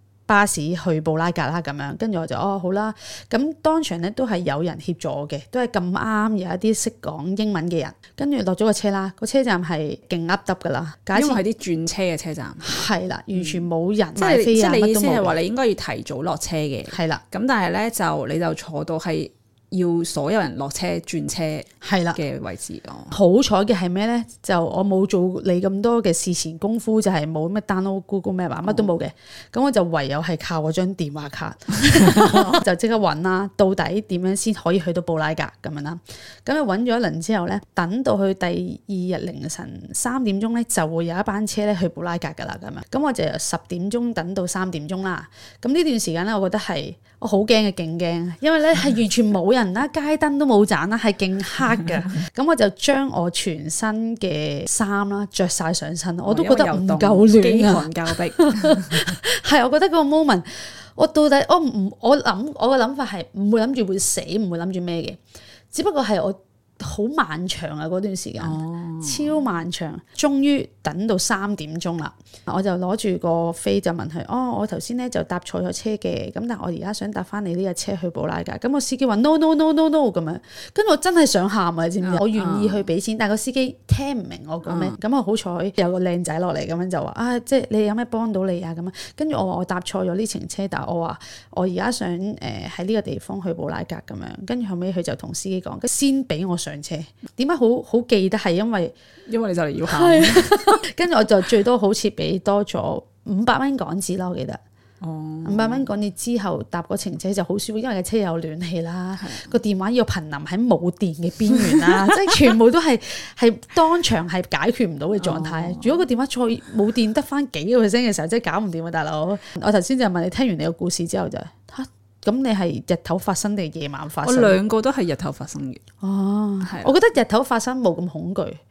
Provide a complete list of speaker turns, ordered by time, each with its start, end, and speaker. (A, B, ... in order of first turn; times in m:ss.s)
0:00.3-0:11.4 A
0:11.1-0:23.2 B
0:12.6-0:15.4 A
0:16.9-0:17.2 A
0:21.8-0:22.2 A
0:23.1-1:05.2 A
0:28.6-0:28.9 B
0:56.2-0:59.1 B
1:05.7-1:38.9 A
1:08.4-1:09.4 B
1:22.0-1:22.9 B
1:24.6-1:25.0 B
1:39.3-1:40.8 B
1:39.9-1:44.6 A
1:45.0-1:45.9 B
1:45.4-2:04.6 A
1:49.2-1:49.5 B
1:51.5-1:52.3 B
1:55.2-1:56.0 B
2:04.2-2:05.8 B
2:06.0-2:08.6 A
2:06.6-2:06.9 B